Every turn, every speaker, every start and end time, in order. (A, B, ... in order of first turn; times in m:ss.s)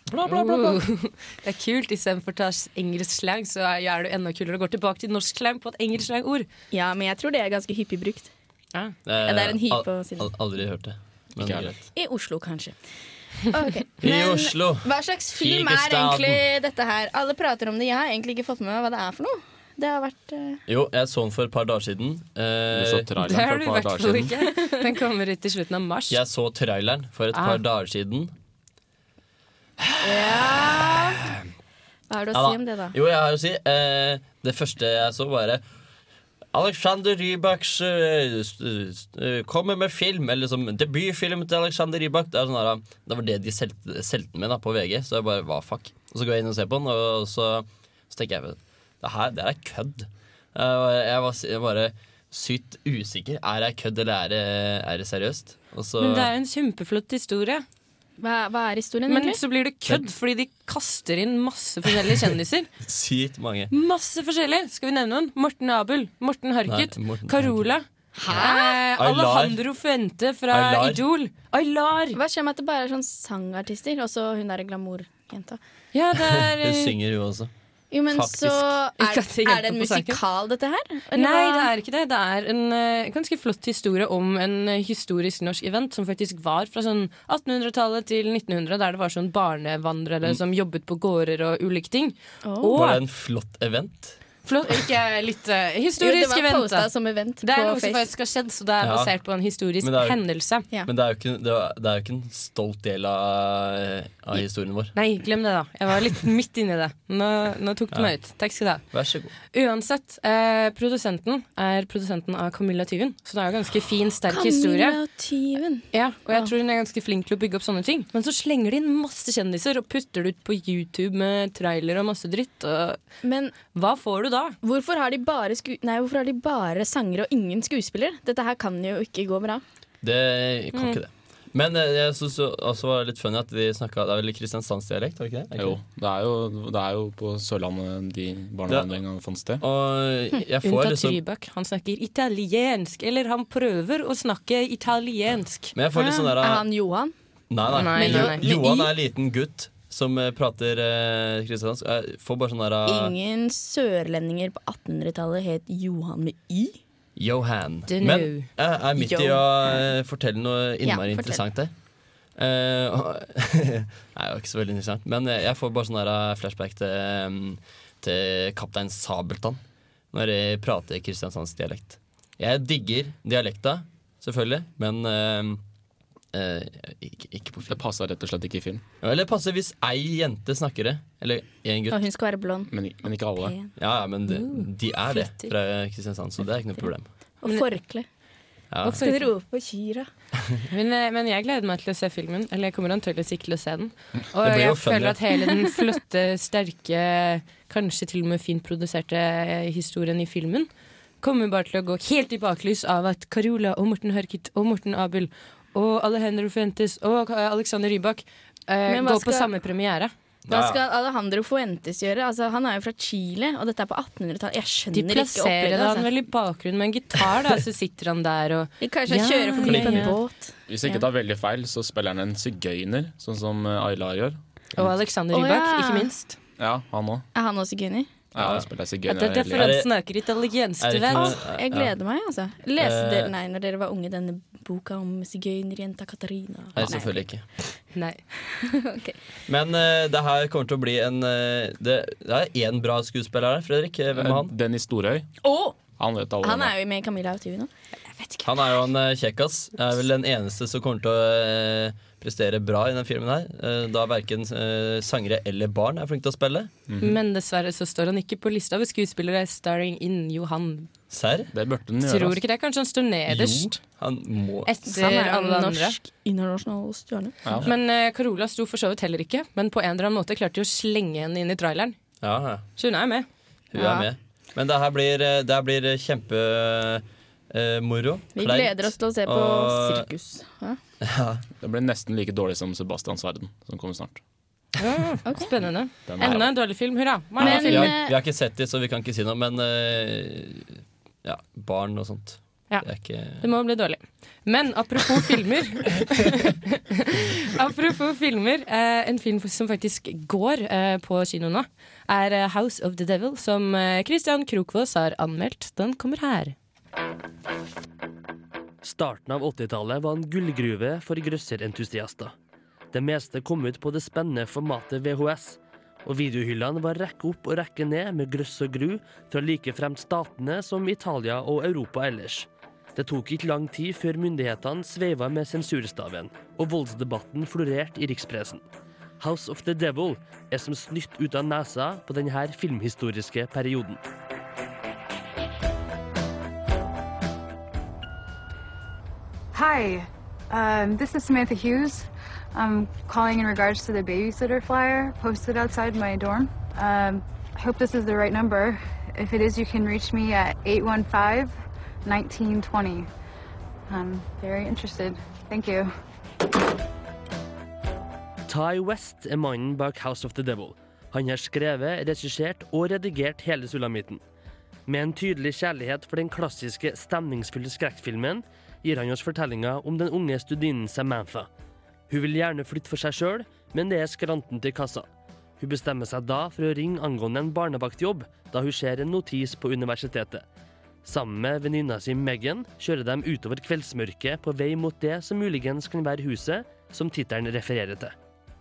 0:00.1-0:00.8 A
0:00.2-0:06.5 B
0:06.7-0:08.3 C
0:09.1-0:11.8 A
0:09.2-0:10.3 C
0:11.4-0:11.8 D
0:12.0-0:12.8 C
0:13.5-0:20.6 C
0:14.0-0:16.4 A
0:20.7-0:23.1 A
0:22.7-0:24.4 D
0:23.2-0:26.2 B
0:26.1-0:28.3 A
0:27.3-0:27.6 B
0:29.9-0:31.4 A
0:30.0-0:31.2 C
0:32.1-0:33.0 C
0:32.3-0:35.6 A
0:36.5-0:56.3 A
0:56.0-0:57.7 B
0:58.2-0:59.4 C
0:59.1-1:02.7 B
1:02.8-1:03.7 A
1:03.7-1:12.2 B
1:06.7-1:07.7 A
1:08.2-1:08.8 C
1:08.3-1:09.6 A
1:10.5-1:11.0 A
1:12.1-1:15.6 C
1:15.9-1:17.0 B
1:16.2-1:17.5 A
1:17.9-1:21.7 C
1:18.1-1:18.8 A
1:19.0-1:20.2 B
1:21.1-1:33.0 B
1:32.4-1:32.7 C
1:32.7-1:34.2 A
1:34.4-1:36.9 B
1:36.0-1:38.1 C
1:37.4-1:40.7 B
1:38.8-1:39.1 A
1:39.8-1:40.2 A
1:40.8-1:44.9 A
1:44.4-1:48.8 B
1:48.9-1:49.3 A
1:49.5-1:55.0 B
1:54.3-1:56.5 C
1:55.9-2:03.0 B
2:03.2-2:03.6 C
2:03.7-2:04.6 B
2:04.6-2:09.6 C
2:10.0-2:15.8 A
2:10.7-2:11.0 B
2:15.6-2:19.6 D
2:19.6-2:21.2 A
2:20.6-2:26.3 B
2:25.8-2:26.7 A
2:26.0-2:27.1 C
2:27.5-2:33.1 A
2:27.7-2:28.5 B
2:27.9-2:28.9 C
2:32.9-2:36.8 C
2:37.2-2:41.7 A
2:37.9-2:38.5 B
2:39.0-2:39.9 C
2:40.8-2:41.4 C
2:42.4-2:49.6 A
2:50.1-2:55.6 A
2:56.3-2:57.8 A
2:57.7-2:58.8 D
2:59.0-3:02.0 A
3:01.9-3:03.7 C
3:02.7-3:03.6 D
3:03.8-3:07.1 A
3:04.3-3:05.5 B
3:07.4-3:08.1 C
3:07.4-3:07.7 B
3:08.7-3:09.0 A
3:08.8-3:09.3 B
3:08.8-3:10.1 C
3:10.7-3:20.7 B
3:14.4-3:15.5 A
3:21.2-3:30.1 B
3:28.9-3:29.5 C
3:30.5-3:30.8 A
3:30.5-3:36.1 C
3:34.9-3:40.2 B
3:38.8-3:41.1 C
3:39.6-3:40.2 A
3:40.7-3:45.0 D
3:44.8-3:46.4 B
3:45.3-3:46.1 C
3:46.6-3:47.3 D
3:47.4-3:48.1 C
3:48.3-3:49.8 D
3:48.4-3:48.7 A
3:49.1-3:51.4 B
3:49.5-3:49.9 A
3:50.8-3:51.9 A
3:51.1-3:57.2 C
3:52.8-3:53.3 A
3:56.8-3:57.4 A
3:58.0-3:58.2 B
3:58.5-3:59.2 C
3:59.5-4:04.5 A
4:04.1-4:05.3 D
4:05.4-4:05.8 C
4:06.0-4:06.7 D
4:06.4-4:07.7 C
4:08.1-4:08.4 B
4:08.4-4:16.7 A
4:16.9-4:17.2 D
4:17.0-4:20.9 B
4:21.1-4:21.5 A
4:21.5-4:22.4 D
4:22.0-4:23.8 B
4:23.3-4:24.7 A
4:24.7-4:26.0 B
4:24.9-4:27.4 C
4:27.4-4:27.7 D
4:27.6-4:32.0 B
4:32.2-4:32.7 A
4:32.8-4:33.3 B
4:33.7-4:40.1 A
4:33.7-4:34.1 C
4:38.4-4:40.8 C
4:41.0-4:41.4 A
4:41.6-4:44.2 D
4:44.8-4:48.0 B
4:45.7-4:46.4 D
4:46.2-4:46.5 A
4:47.4-4:53.4 A
4:47.4-4:48.1 C
4:53.4-5:06.6 B
5:08.8-5:12.3 E
5:12.9-5:28.6 E
5:29.2-5:34.0 E
5:39.5-5:53.1 F
5:53.9-5:55.9 F
5:58.5-6:04.2 E
6:04.9-6:11.5 E
6:12.1-6:15.1 E
6:15.6-6:20.4 E
6:21.0-6:28.1 E